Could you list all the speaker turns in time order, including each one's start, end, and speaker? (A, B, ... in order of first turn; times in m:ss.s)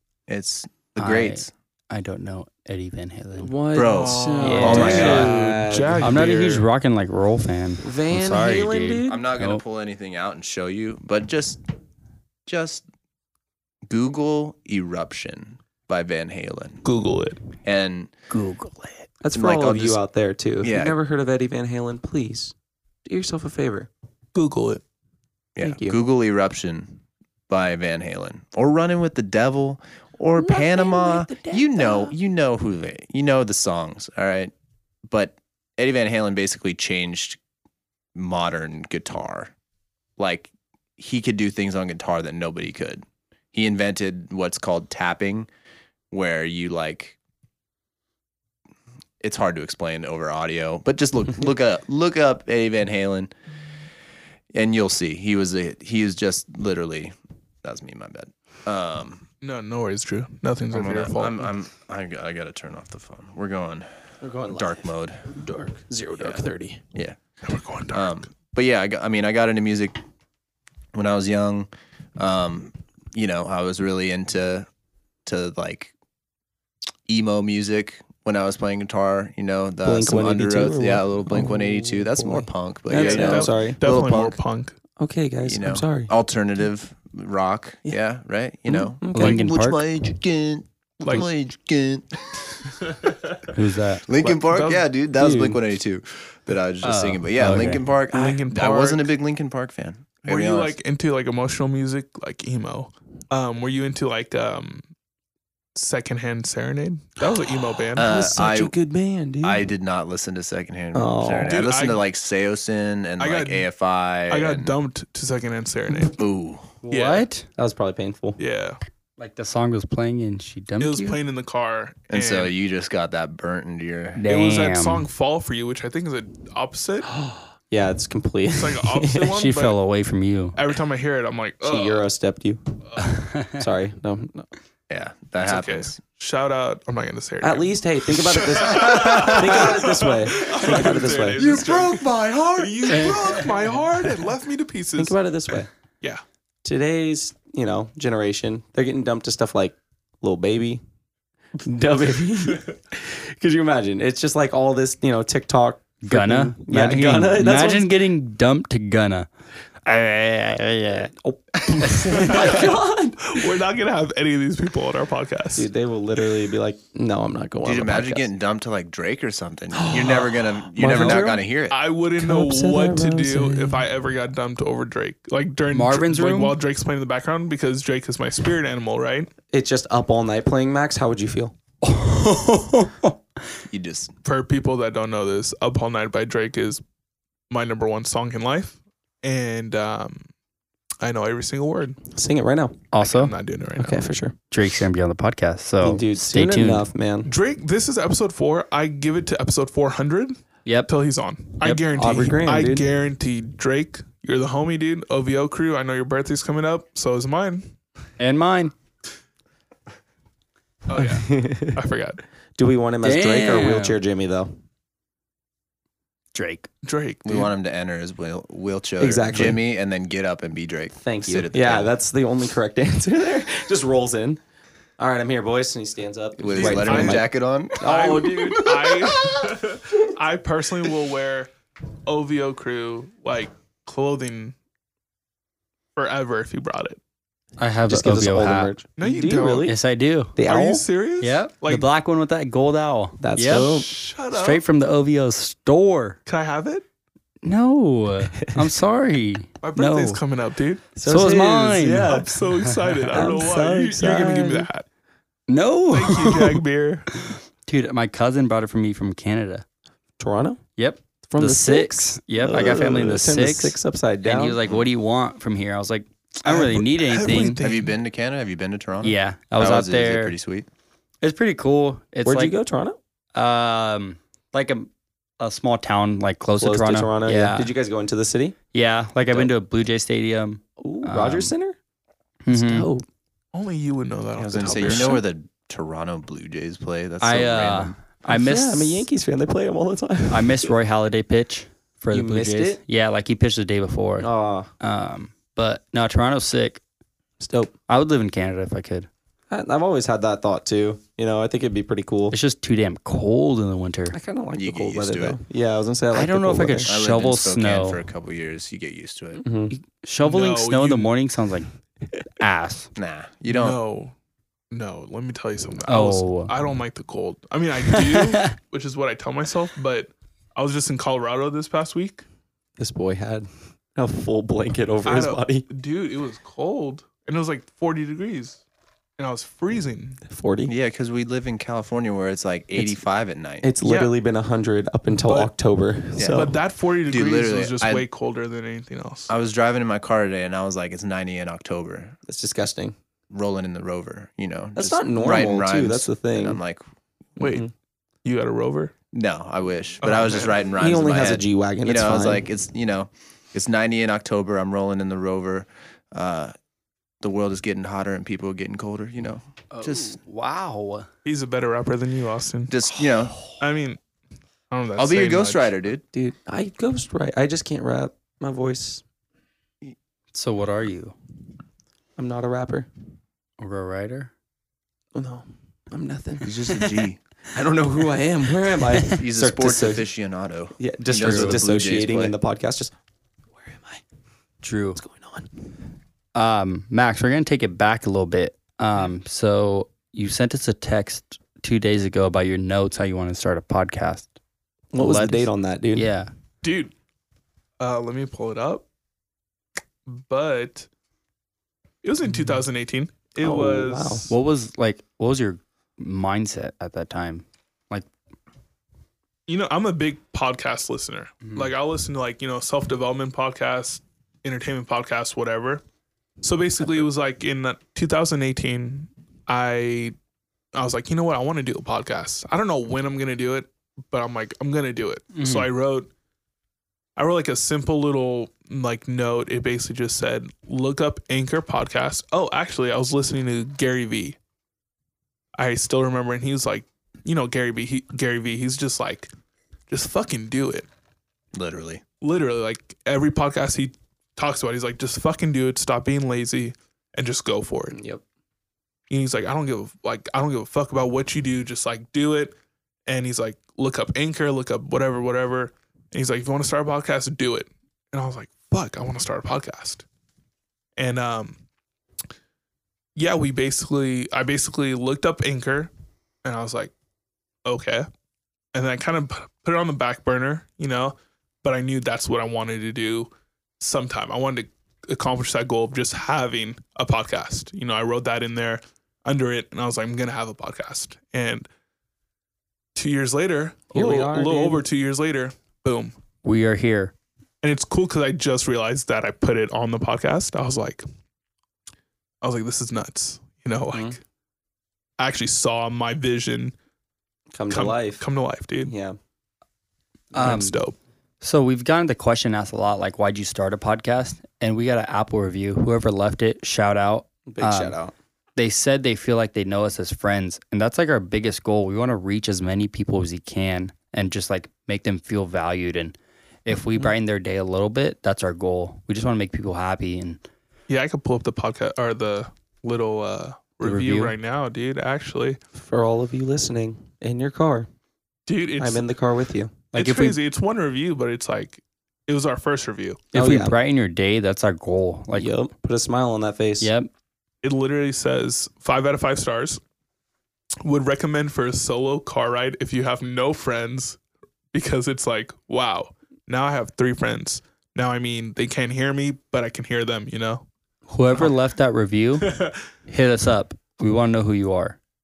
0:00.3-0:01.5 A
0:01.0-0:03.5 B
0:03.4-0:06.2 C
0:03.7-0:05.3 A
0:03.9-0:06.7 D
0:04.4-0:05.3 B
0:06.0-0:09.6 B
0:07.8-0:09.2 C
0:09.0-0:11.6 A
0:12.4-0:12.8 A
0:13.8-0:16.8 A
0:16.8-0:17.4 D
0:17.6-0:18.1 A
0:18.3-0:18.8 B
0:19.2-0:22.5 C
0:19.3-0:20.0 A
0:20.6-0:21.0 A
0:23.0-0:23.9 C
0:24.3-0:24.8 D
0:25.6-0:34.5 A
0:25.6-0:26.0 C
0:30.4-0:32.1 C
0:35.1-0:37.4 A
0:38.1-0:39.5 A
0:40.2-0:45.5 A
0:46.1-0:47.2 A
0:49.2-0:53.3 A
0:54.5-0:59.2 A
0:59.4-1:01.5 D
1:00.7-1:03.9 A
1:04.2-1:06.8 C
1:04.5-1:05.4 A
1:06.2-1:07.2 A
1:07.4-1:08.2 D
1:07.9-1:10.0 A
1:10.9-1:14.7 A
1:15.2-1:15.9 A
1:17.1-1:24.4 A
1:19.8-1:23.8 C
1:22.9-1:24.7 D
1:25.0-1:26.1 C
1:25.4-1:32.9 A
1:28.7-1:29.4 C
1:29.1-1:29.8 B
1:31.0-1:31.3 D
1:32.9-1:33.3 D
1:33.5-1:34.0 B
1:34.0-1:40.8 A
1:34.2-1:34.9 D
1:35.2-1:35.5 C
1:36.8-1:37.8 B
1:38.1-1:39.0 D
1:40.2-1:44.9 D
1:45.7-1:48.1 D
1:47.9-1:49.6 C
1:48.0-1:48.7 A
1:49.4-1:54.7 A
1:50.9-1:51.5 C
1:51.4-1:52.0 D
1:53.2-1:53.7 D
1:54.3-1:56.2 D
1:56.1-1:56.7 A
1:56.8-1:57.5 B
1:56.9-1:57.3 D
1:57.5-1:58.4 C
1:58.4-1:58.8 D
1:59.2-2:01.2 B
2:00.8-2:02.5 D
2:02.1-2:04.2 A
2:04.1-2:05.1 B
2:04.3-2:07.1 D
2:07.1-2:09.3 C
2:08.5-2:09.8 D
2:09.3-2:10.6 B
2:10.5-2:12.1 D
2:11.6-2:14.5 C
2:13.0-2:13.6 B
2:14.9-2:16.0 A
2:15.4-2:25.2 D
2:17.4-2:21.4 C
2:21.4-2:23.2 A
2:22.9-2:23.5 B
2:25.0-2:25.7 C
2:26.6-2:30.8 C
2:31.6-2:37.9 C
2:36.0-2:39.3 B
2:39.8-2:41.1 B
2:41.1-2:43.4 C
2:42.2-2:45.7 D
2:45.6-2:48.3 C
2:47.6-2:51.8 A
2:49.7-2:51.4 C
2:51.7-2:59.3 D
2:52.2-2:53.9 C
2:55.7-2:56.6 B
2:59.5-3:01.5 C
3:01.8-3:03.2 B
3:03.7-3:04.1 A
3:04.2-3:06.8 D
3:07.5-3:10.3 D
3:11.0-3:12.0 D
3:12.1-3:12.8 C
3:12.9-3:13.3 B
3:13.0-3:14.1 D
3:13.8-3:14.3 C
3:14.5-3:16.9 B
3:15.8-3:17.3 C
3:17.2-3:27.7 D
3:21.9-3:22.8 C
3:28.2-3:28.7 B
3:30.9-3:32.2 D
3:30.9-3:31.8 C
3:32.6-3:34.5 C
3:33.0-3:34.0 B
3:36.3-3:36.7 B
3:36.8-3:37.5 D
3:37.2-3:41.9 A
3:39.0-3:39.6 C
3:41.0-3:44.4 C
3:45.0-3:47.3 C
3:46.4-3:47.9 A
3:46.5-3:47.3 D
3:47.8-3:49.3 C
3:47.8-3:51.5 D
3:52.0-3:54.5 D
3:56.0-3:57.0 D
3:57.6-3:58.7 B
3:57.9-3:59.8 C
3:59.0-3:59.7 D
3:59.6-4:00.3 B
4:00.4-4:00.8 C
4:00.4-4:01.8 D
4:01.2-4:06.2 B
4:03.2-4:03.9 C
4:03.5-4:04.6 D
4:06.2-4:06.8 D
4:07.4-4:10.2 B
4:09.6-4:10.9 D
4:11.0-4:12.5 C
4:11.0-4:13.3 B
4:11.9-4:14.8 D
4:13.1-4:14.7 C
4:15.5-4:16.6 B
4:15.9-4:17.1 D
4:17.1-4:19.6 B
4:20.2-4:20.6 C
4:20.8-4:27.6 B
4:21.3-4:24.6 C
4:26.4-4:28.0 D
4:27.6-4:30.7 A
4:29.0-4:30.4 B
4:31.2-4:32.6 B
4:32.2-4:33.0 C
4:33.3-4:37.7 B
4:36.6-4:38.6 C
4:38.7-4:41.5 B
4:40.8-4:41.8 C
4:42.4-4:42.9 B
4:42.5-4:43.0 C
4:43.5-4:45.2 D
4:44.4-4:47.9 A
4:44.7-4:45.2 C
4:47.2-4:49.1 B
4:48.3-4:50.7 C
4:50.3-4:54.3 B
4:52.1-4:52.8 C
4:54.2-4:54.7 C
4:54.8-4:56.8 B
4:57.4-4:57.7 C
4:57.9-4:59.1 B
4:59.5-5:02.4 C
5:02.3-5:04.2 B
5:04.1-5:06.9 C
5:04.5-5:05.4 A
5:06.1-5:08.0 B
5:06.8-5:09.4 A
5:09.4-5:09.7 C
5:09.7-5:11.7 B
5:10.2-5:11.1 D
5:12.4-5:12.9 B
5:13.0-5:13.8 A
5:13.5-5:14.1 D
5:14.7-5:22.2 D
5:15.9-5:16.5 B
5:17.9-5:18.5 B
5:22.8-5:25.6 C
5:25.0-5:28.6 D
5:29.2-5:30.2 D
5:30.2-5:30.7 C
5:30.7-5:33.7 A
5:33.6-5:36.5 C
5:33.8-5:34.1 D
5:35.2-5:35.5 D
5:36.2-5:36.5 A
5:36.3-5:39.3 D
5:37.0-5:38.0 A
5:39.3-5:42.2 A
5:42.3-5:42.9 C
5:43.3-5:46.8 A
5:44.8-5:46.6 C
5:47.4-5:47.7 D
5:47.4-5:47.7 C
5:48.2-5:48.9 D
5:49.1-5:56.5 A
5:50.0-5:50.6 D
5:50.8-5:52.4 C
5:57.2-6:00.2 A
5:59.7-6:01.1 B
6:01.2-6:02.8 D
6:02.7-6:03.4 A
6:03.6-6:04.0 D
6:04.7-6:05.7 D
6:05.0-6:06.0 A
6:06.1-6:09.0 C
6:10.3-6:11.1 B
6:12.2-6:12.9 C
6:13.6-6:14.3 B
6:15.1-6:16.9 C
6:16.4-6:17.2 A
6:17.5-6:20.0 C
6:19.0-6:22.3 A
6:20.8-6:22.9 C
6:21.2-6:21.6 B
6:23.6-6:24.0 C
6:24.6-6:25.0 B
6:25.0-6:25.5 C
6:26.3-6:34.3 B
6:34.9-6:36.1 C
6:35.0-6:36.3 B
6:36.6-6:36.9 D
6:37.8-6:38.8 D
6:40.1-6:40.9 D
6:42.0-6:44.3 D
6:43.4-6:44.3 C
6:44.3-6:48.1 B
6:49.5-6:55.8 D
6:51.4-6:51.7 B
6:56.4-7:00.1 D
7:00.7-7:06.1 D
7:05.3-7:05.7 B
7:07.2-7:14.4 D
7:15.6-7:19.3 D
7:19.9-7:20.9 D
7:21.5-7:22.0 A
7:22.2-7:28.0 D
7:27.9-7:28.2 C
7:29.1-7:32.5 D
7:33.1-7:40.0 D
7:41.0-7:41.6 D
7:43.2-7:45.9 D
7:46.4-7:46.9 D
7:47.6-7:48.1 D
7:48.7-8:01.7 D
8:02.9-8:06.1 D
8:03.9-8:04.8 C
8:06.4-8:07.1 B
8:07.6-8:11.0 D
8:12.4-8:14.2 D
8:15.2-8:16.7 D
8:17.5-8:18.2 C
8:17.7-8:18.9 D
8:18.8-8:19.2 C
8:20.3-8:20.8 B
8:20.3-8:21.0 D
8:21.4-8:28.0 B
8:27.5-8:28.1 C
8:28.6-8:40.4 B
8:40.9-8:45.6 D
8:43.8-8:44.3 B
8:45.8-8:47.9 C
8:48.4-8:49.0 D
8:48.8-8:49.8 C
8:49.9-8:53.2 D
8:49.9-8:50.4 B
8:53.3-8:53.8 C
8:53.3-8:55.5 B
8:55.3-8:56.9 C
8:56.8-8:57.1 B
8:57.6-8:59.8 D
9:00.8-9:04.2 D
9:04.7-9:10.6 D
9:11.1-9:12.5 B
9:12.4-9:12.7 D
9:13.1-9:15.0 B